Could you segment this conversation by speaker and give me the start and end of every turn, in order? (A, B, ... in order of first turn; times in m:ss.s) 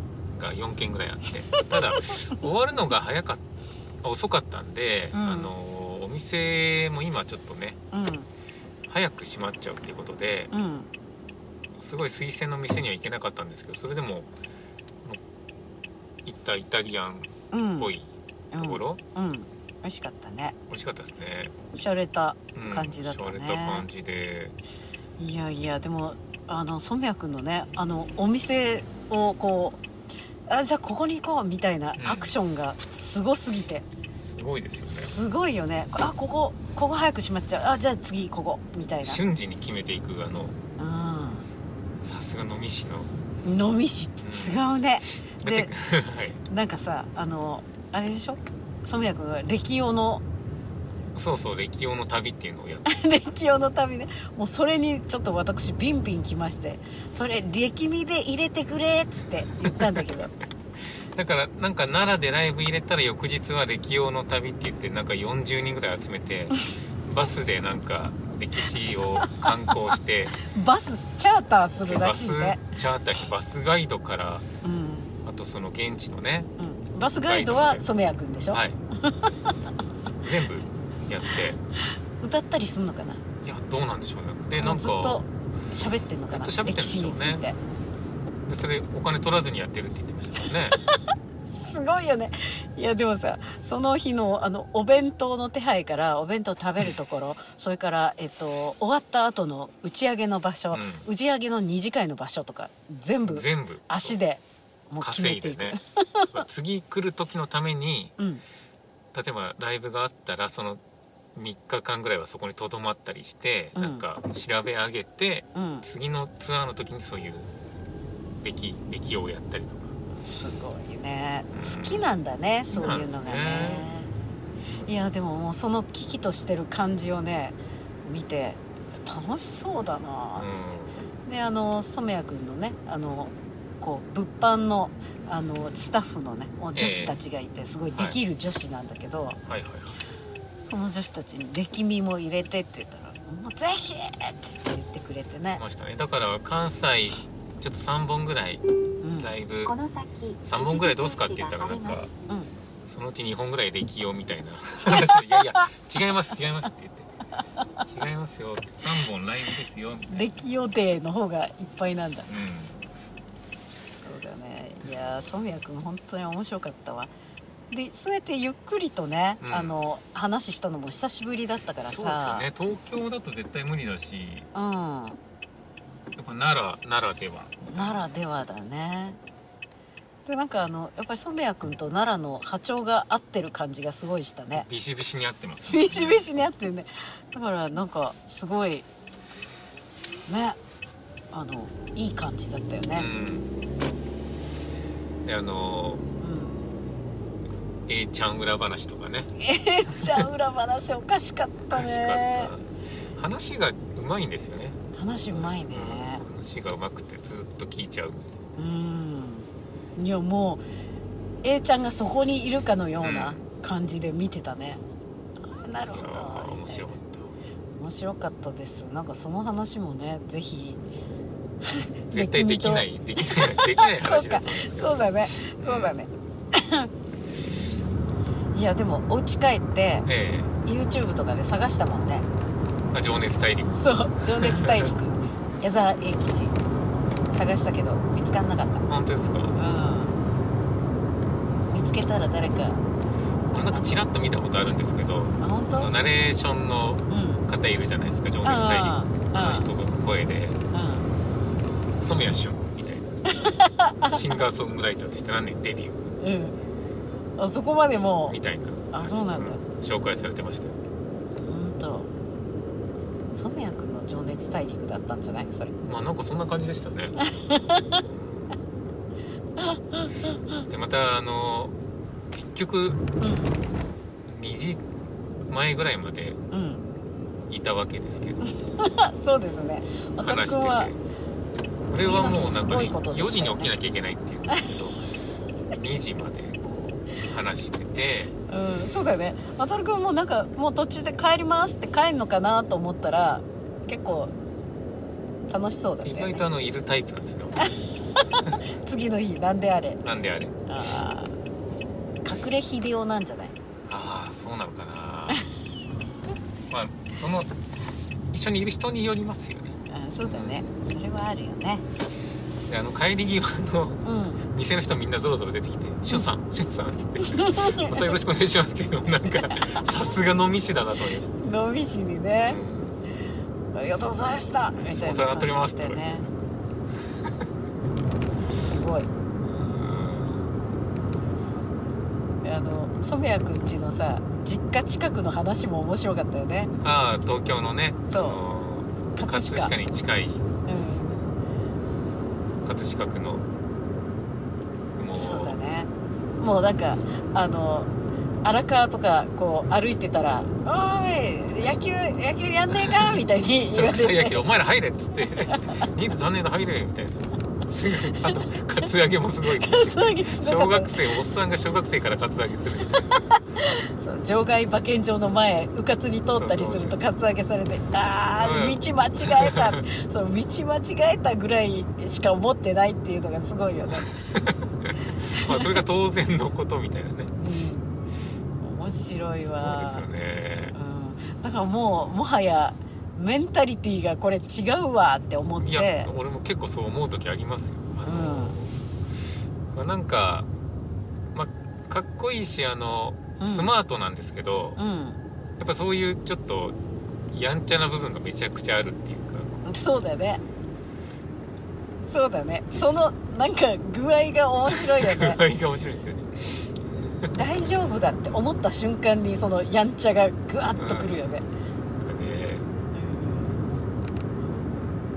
0:00.3-0:03.4 A
0:01.6-0:02.3 B
0:04.0-0:07.8 A
0:05.1-0:05.5 B
0:07.9-0:08.3 B
0:08.9-0:10.5 A
0:10.5-0:10.9 B
0:11.8-0:14.3 A
0:16.2-0:19.0 A
0:17.5-0:17.9 B
0:18.5-0:20.6 B
0:20.7-0:21.6 A
0:21.7-0:23.9 B
0:22.5-0:24.6 A
0:25.2-0:29.8 B
0:30.5-0:33.9 B
0:32.0-0:32.4 A
0:34.1-0:35.2 A
0:34.9-0:39.2 B
0:39.0-0:40.6 A
0:40.8-0:41.4 B
0:42.0-0:43.1 A
0:43.4-0:45.7 B
0:44.2-0:44.6 A
0:45.4-0:46.4 A
0:46.5-0:50.2 B
0:51.1-0:53.0 A
0:52.9-1:00.3 B
0:59.6-1:00.0 A
1:01.1-1:10.3 A
1:10.4-1:12.6 B
1:11.9-1:14.5 A
1:14.6-1:15.1 B
1:15.2-1:16.5 A
1:16.6-1:19.5 B
1:17.2-1:17.9 A
1:18.5-1:18.8 A
1:20.2-1:21.6 A
1:22.2-1:23.2 B
1:23.4-1:25.2 A
1:24.6-1:27.6 B
1:26.3-1:27.5 A
1:28.5-1:30.8 A
1:30.8-1:46.3 B
1:40.7-1:41.1 A
1:43.2-1:44.2 A
1:45.0-1:45.8 A
1:46.3-1:48.1 A
1:49.1-1:50.8 A
1:51.3-1:57.5 A
1:53.8-1:54.0 B
1:55.5-1:55.9 B
1:58.4-2:00.0 A
2:00.2-2:04.1 B
2:01.5-2:02.1 A
2:02.7-2:03.9 A
2:04.8-2:10.6 B
2:10.4-2:11.1 A
2:11.2-2:19.4 B
2:16.7-2:17.2 A
2:19.4-2:20.0 A
2:20.7-2:25.6 B
2:25.5-2:28.6 A
2:29.0-2:29.3 B
2:29.2-2:29.7 A
2:29.6-2:32.0 C
2:30.4-2:32.1 A
2:32.8-2:37.1 A
2:35.2-2:35.6 B
2:37.8-2:40.3 A
2:40.1-2:42.3 B
2:42.3-2:42.8 A
2:44.0-2:47.1 B
2:44.8-2:45.2 A
2:47.7-2:52.5 B
2:49.4-2:49.7 A
2:51.8-2:54.5 A
2:54.5-2:55.2 B
2:56.2-2:58.1 A
2:57.6-2:59.2 B
3:00.2-3:04.7 B
3:04.5-3:06.4 A
3:05.6-3:08.8 B
3:10.3-3:10.6 B
3:11.3-3:13.1 B
3:12.9-3:13.5 A
3:15.2-3:16.0 A
3:16.2-3:16.6 B
3:17.9-3:19.3 A
3:19.4-3:22.5 B
3:21.7-3:24.8 A
3:24.9-3:26.2 B
3:25.3-3:28.4 A
3:28.6-3:30.6 B
3:31.4-3:34.8 B
3:33.0-3:33.4 A
3:35.4-3:37.0 B
3:35.9-3:37.4 A
3:37.8-3:40.8 B
3:41.6-3:46.9 B
3:42.1-3:46.0 A
3:48.5-3:50.1 B
3:50.0-3:50.5 A
3:50.6-3:52.3 B
3:52.9-3:54.9 A
3:53.7-3:56.6 B
3:57.3-3:58.8 B
3:58.9-3:59.6 A
3:59.6-4:00.2 B
4:01.7-4:02.8 B
4:03.5-4:10.6 A
4:03.5-4:03.9 B
4:05.4-4:05.9 B
4:07.1-4:07.4 B
4:08.4-4:09.7 B
4:10.7-4:11.1 B
4:12.0-4:13.1 A
4:13.3-4:14.2 B
4:14.1-4:16.1 A
4:16.2-4:16.6 B
4:17.4-4:18.4 B
4:18.3-4:20.8 A
4:18.9-4:19.6 B
4:21.3-4:22.1 B
4:23.3-4:25.7 B
4:25.8-4:27.2 A
4:27.2-4:28.0 B
4:28.0-4:28.5 A
4:29.6-4:30.6 B
4:30.7-4:31.8 A
4:32.3-4:33.0 A
4:33.2-4:33.6 B
4:34.2-4:34.8 A
4:35.5-4:36.4 A
4:36.5-4:36.8 B
4:37.5-4:38.4 A
4:38.4-4:40.9 B
4:40.2-4:41.0 A
4:41.9-4:45.1 A
4:41.9-4:43.7 B
4:45.7-4:48.3 A
4:48.5-4:54.3 B
4:55.5-4:56.4 B
4:56.0-4:57.7 A
4:58.2-5:00.0 B
5:00.0-5:00.5 A
5:00.6-5:01.3 B
5:02.2-5:03.6 B
5:03.8-5:05.5 A
5:06.7-5:07.5 A
5:08.3-5:09.8 A
5:09.9-5:11.8 B
5:10.3-5:10.6 A
5:12.7-5:21.3 A
5:14.0-5:14.4 B
5:17.3-5:18.1 B
5:19.3-5:19.8 B
5:21.4-5:22.6 B
5:22.4-5:23.0 A
5:23.7-5:26.3 B
5:24.9-5:26.4 A
5:28.5-5:29.1 B
5:29.5-5:30.5 A
5:32.4-5:36.7 B
5:36.8-5:40.4 A
5:38.1-5:38.4 B
5:39.2-5:39.7 B
5:40.6-5:41.3 B
5:42.6-5:43.5 A
5:44.9-5:45.6 A
5:45.1-5:47.9 B
5:48.4-5:54.4 B
5:52.8-6:03.1 A
5:55.5-5:55.9 B
5:59.4-6:01.0 B
6:03.0-6:14.2 B
6:06.4-6:07.0 A
6:08.3-6:09.7 A
6:14.3-6:17.3 A
6:15.3-6:15.8 B
6:17.4-6:18.0 B
6:18.6-6:20.0 B
6:19.4-6:20.8 A
6:20.7-6:26.1 B
6:25.6-6:28.8 A
6:28.0-6:28.6 B
6:29.7-6:30.5 A
6:31.3-6:34.8 A
6:33.4-6:33.7 B
6:34.8-6:35.2 B
6:35.6-6:36.8 A
6:37.3-6:39.6 A
6:39.6-6:40.4 B
6:42.0-6:45.4 B
6:42.7-6:43.0 A
6:44.7-6:46.6 A
6:47.3-6:51.4 B
6:50.7-6:51.3 A
6:52.0-6:52.7 A
6:52.9-6:53.8 B